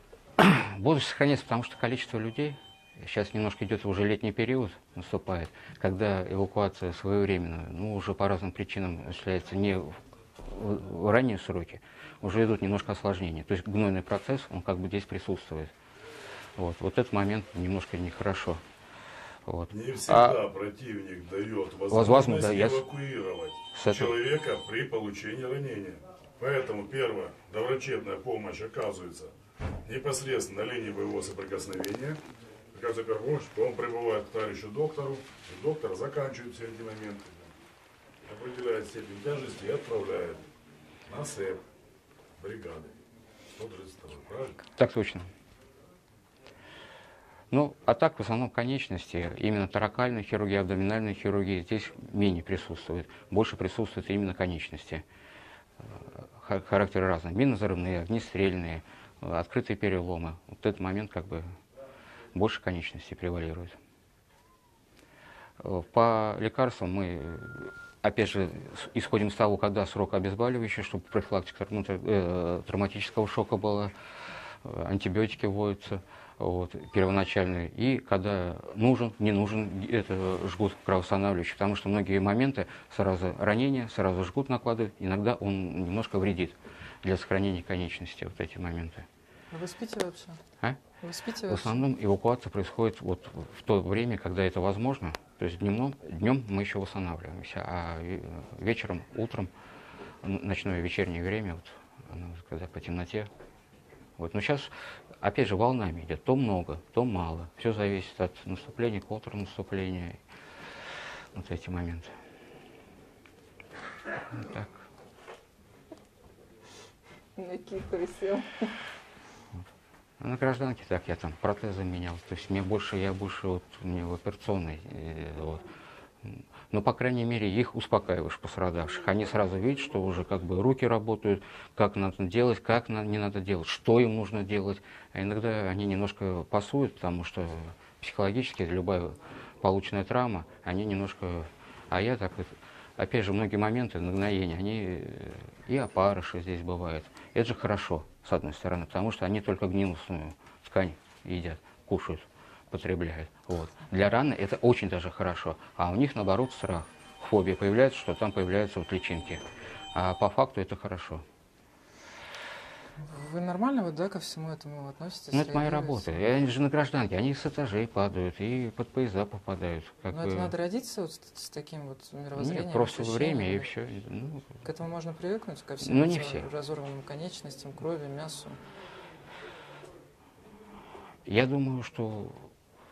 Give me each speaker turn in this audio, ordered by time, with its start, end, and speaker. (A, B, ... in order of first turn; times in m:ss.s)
0:00.4-0:15.7 A
0:16.6-0:18.6 A
0:19.4-0:20.4 A
0:19.7-0:29.3 B
0:21.9-0:22.8 A
0:23.7-0:24.2 A
0:29.8-0:32.2 B
0:32.7-0:37.5 B
0:38.2-0:40.4 B
0:41.1-0:41.6 B
0:42.4-0:42.9 B
0:43.5-0:44.6 B
0:44.7-0:45.3 A
0:47.5-0:55.0 A
0:55.9-1:01.4 A
1:02.3-1:03.8 A
1:05.6-1:13.9 A
1:14.6-1:29.0 A
1:29.5-1:30.4 C
1:31.0-1:31.8 C
1:31.4-1:39.5 A
1:40.2-1:43.3 A
1:44.2-1:44.7 A
1:45.2-1:50.2 A
1:51.3-1:52.1 A
1:54.3-1:54.7 A
1:57.4-1:58.7 C
2:00.2-2:05.6 A
2:06.2-2:39.4 A
2:39.9-2:41.2 A
2:43.0-2:46.1 C
2:45.3-2:50.5 A
2:50.1-2:53.7 C
2:52.4-2:54.5 A
2:54.6-2:58.6 C
2:55.8-2:56.5 A
3:01.2-3:02.5 A